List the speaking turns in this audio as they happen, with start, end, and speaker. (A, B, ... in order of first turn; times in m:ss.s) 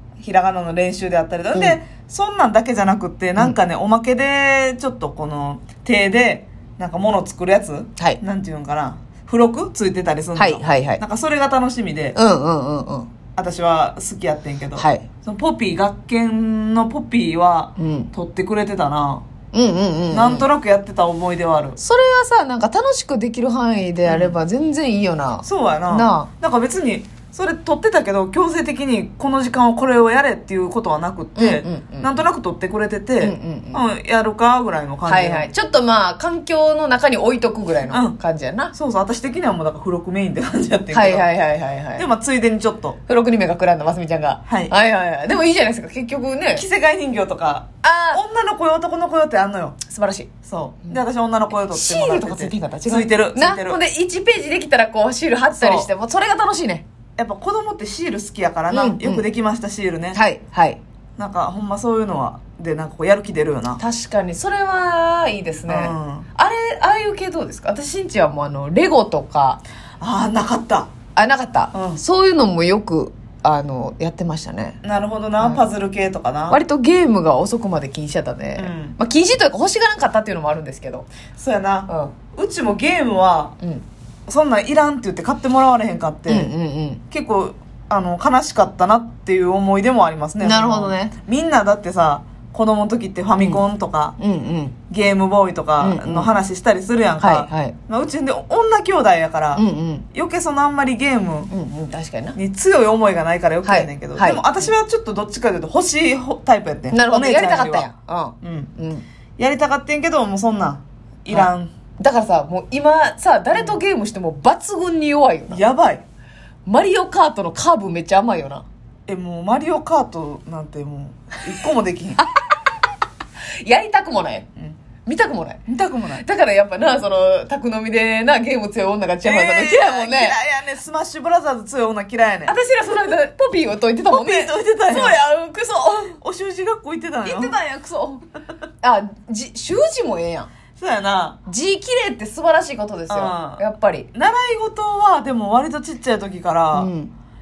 0:00.2-0:12.2 A
0:10.4-0:11.0 B
0:12.2-0:13.1 B
0:13.4-0:19.3 A
0:14.8-0:15.1 B
0:17.8-0:18.1 B
0:19.5-0:20.5 B
0:20.1-0:21.8 A
0:21.8-0:26.3 B
0:24.0-0:24.4 A
0:25.4-0:35.5 A
0:31.4-0:32.1 B
0:33.2-0:33.8 B
0:35.1-0:38.7 B
0:37.9-0:38.2 A
0:38.7-0:41.3 A
0:40.9-0:42.1 B
0:42.0-0:43.0 A
0:43.1-0:46.6 B
0:44.5-0:44.7 A
0:46.6-0:49.8 A
0:47.8-0:48.2 B
0:49.8-0:50.3 B
0:50.4-0:53.8 A
0:51.7-0:56.8 B
0:55.5-0:55.9 A
0:57.2-1:00.2 A
0:58.7-0:59.2 B
1:00.1-1:00.8 B
1:01.2-1:03.8 A
1:03.8-1:09.6 B
1:05.7-1:06.3 A
1:10.0-1:10.9 A
1:11.2-1:14.8 B
1:11.7-1:12.0 A
1:14.8-1:16.6 A
1:15.4-1:15.6 B
1:16.5-1:21.1 B
1:18.6-1:19.0 A
1:21.4-1:23.6 A
1:21.9-1:22.1 B
1:24.3-1:26.5 A
1:26.3-1:27.0 B
1:27.1-1:34.2 A
1:30.4-1:31.2 B
1:34.2-1:34.8 B
1:34.9-1:41.5 A
1:35.8-1:36.3 B
1:37.2-1:37.8 B
1:39.6-1:40.1 B
1:41.5-1:42.4 B
1:42.4-1:47.9 A
1:43.6-1:44.7 B
1:46.9-1:49.0 B
1:48.4-1:48.7 A
1:49.4-1:51.7 A
1:51.3-1:55.6 B
1:53.5-1:53.8 A
1:55.5-1:56.0 A
1:56.7-1:58.6 B
1:59.1-2:02.2 A
2:03.6-2:04.5 B
2:05.0-2:10.4 B
2:05.7-2:06.2 A
2:09.2-2:12.6 A
2:12.5-2:16.2 B
2:14.1-2:15.2 A
2:16.2-2:17.6 A
2:17.2-2:18.2 B
2:18.8-2:20.5 B
2:20.8-2:21.4 A
2:21.5-2:24.1 B
2:23.1-2:23.6 A
2:24.1-2:26.9 A
2:26.7-2:27.1 B